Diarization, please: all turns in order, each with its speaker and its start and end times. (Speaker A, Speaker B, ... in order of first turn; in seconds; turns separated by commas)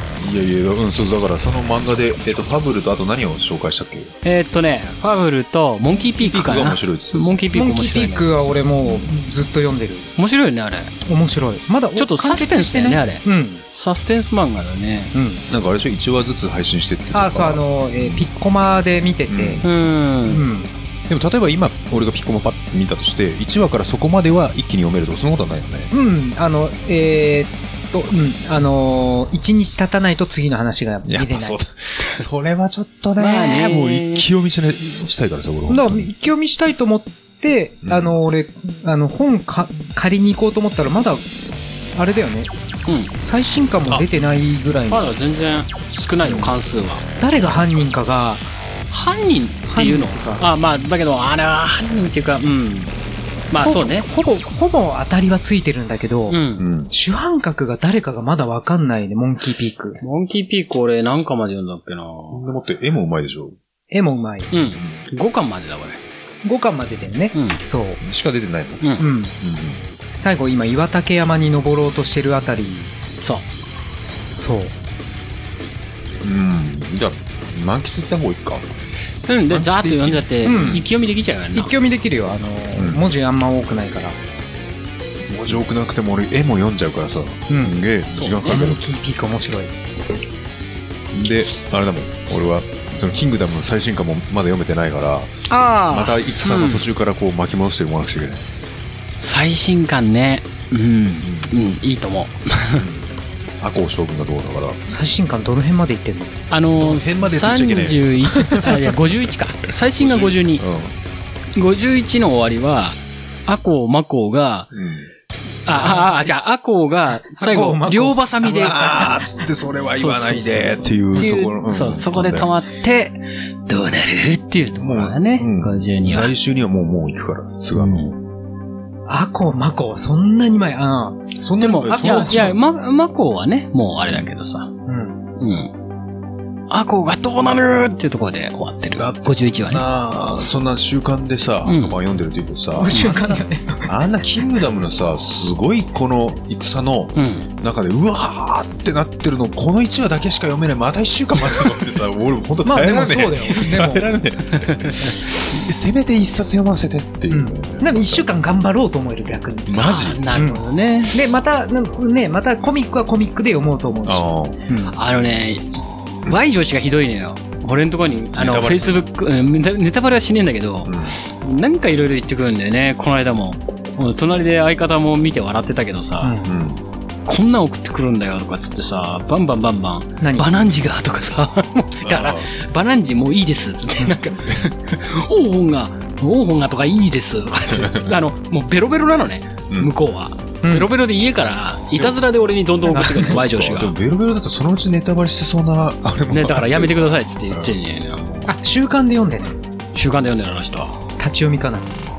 Speaker A: 0.2-4.1, Speaker B: 4.2-8.3, Speaker A: 6.2-7.3, Speaker C: 7.5-10.1, Speaker A: 8.8-9.1, Speaker B: 10.2-10.9, Speaker C: 11.1-13.6, Speaker B: 11.9-15.1, Speaker C: 15.1-15.4, Speaker A: 15.5-18.2, Speaker C: 17.1-19.6, Speaker A: 19.3-19.7, Speaker B: 19.6-20.4, Speaker C: 20.2-20.7, Speaker A: 21.1-25.9, Speaker C: 25.9-31.6, Speaker A: 31.1-36.1, Speaker B: 33.2-34.3, Speaker C: 35.7-41.2, Speaker A: 37.8-38.2, Speaker C: 41.9-42.5, Speaker B: 42.9-43.1, Speaker C: 43.2-45.2, Speaker B: 44.9-47.0, Speaker C: 46.2-46.6, Speaker C: 47.2-48.5, Speaker B: 48.9-52.9, Speaker C: 49.7-50.5, Speaker B: 53.5-54.1, Speaker C: 53.6-56.4, Speaker B: 56.3-56.6, Speaker A: 56.6-56.9, Speaker C: 56.9-60.0, Speaker B: 60.0-62.5, Speaker A: 62.3-63.6, Speaker C: 63.9-64.5, Speaker B: 64.5-66.0, Speaker A: 64.7-65.0, Speaker C: 66.4-68.0, Speaker B: 67.3-67.6, Speaker A: 68.0-69.8, Speaker C: 69.0-69.3, Speaker C: 70.1-73.0, Speaker B: 73.0-73.5, Speaker C: 74.3-74.7, Speaker A: 76.2-78.7, Speaker B: 79.2-81.7, Speaker A: 79.5-80.8, Speaker C: 80.4-80.9, Speaker C: 81.5-84.2, Speaker A: 82.7-83.0, Speaker A: 85.3-88.8, Speaker C: 87.5-89.7, Speaker B: 88.1-88.6, Speaker A: 91.1-98.5, Speaker B: 95.5-96.9, Speaker B: 99.2-102.8, Speaker A: 101.2-101.6, Speaker A: 102.8-104.8, Speaker C: 104.8-106.4, Speaker B: 106.5-110.6, Speaker A: 106.8-109.0, Speaker A: 109.9-110.9, Speaker B: 111.5-114.7, Speaker A: 114.7-115.1, Speaker B: 115.7-126.3, Speaker A: 115.7-116.1, Speaker C: 117.3-118.2, Speaker A: 118.4-122.5, Speaker A: 124.8-128.2, Speaker B: 127.7-128.1, Speaker C: 129.1-132.5, Speaker A: 131.4-132.6, Speaker B: 131.6-134.7, Speaker C: 134.8-135.2, Speaker B: 135.4-135.7, Speaker B: 136.7-139.8, Speaker A: 138.9-143.1, Speaker B: 141.6-142.0, Speaker C: 142.7-143.9, Speaker B: 142.9-143.4, Speaker A: 143.8-158.2, Speaker B: 147.2-147.5, Speaker C: 152.6-154.1, Speaker B: 154.6-155.3, Speaker C: 157.3-164.9, Speaker A: 159.7-160.3, Speaker B: 159.8-161.1, Speaker A: 164.0-164.6, Speaker B: 164.9-176.4, Speaker A: 168.4-169.1, Speaker A: 170.8-171.2, Speaker C: 176.2-176.5, Speaker A: 176.4-176.8, Speaker B: 177.2-193.9, Speaker C: 180.2-180.5, Speaker A: 182.0-182.5, Speaker A: 187.7-188.1, Speaker C: 190.6-190.9, Speaker C: 192.8-193.4, Speaker A: 192.9-197.7, Speaker B: 196.3-198.5, Speaker C: 198.4-199.6, Speaker B: 199.9-201.0, Speaker C: 201.2-201.9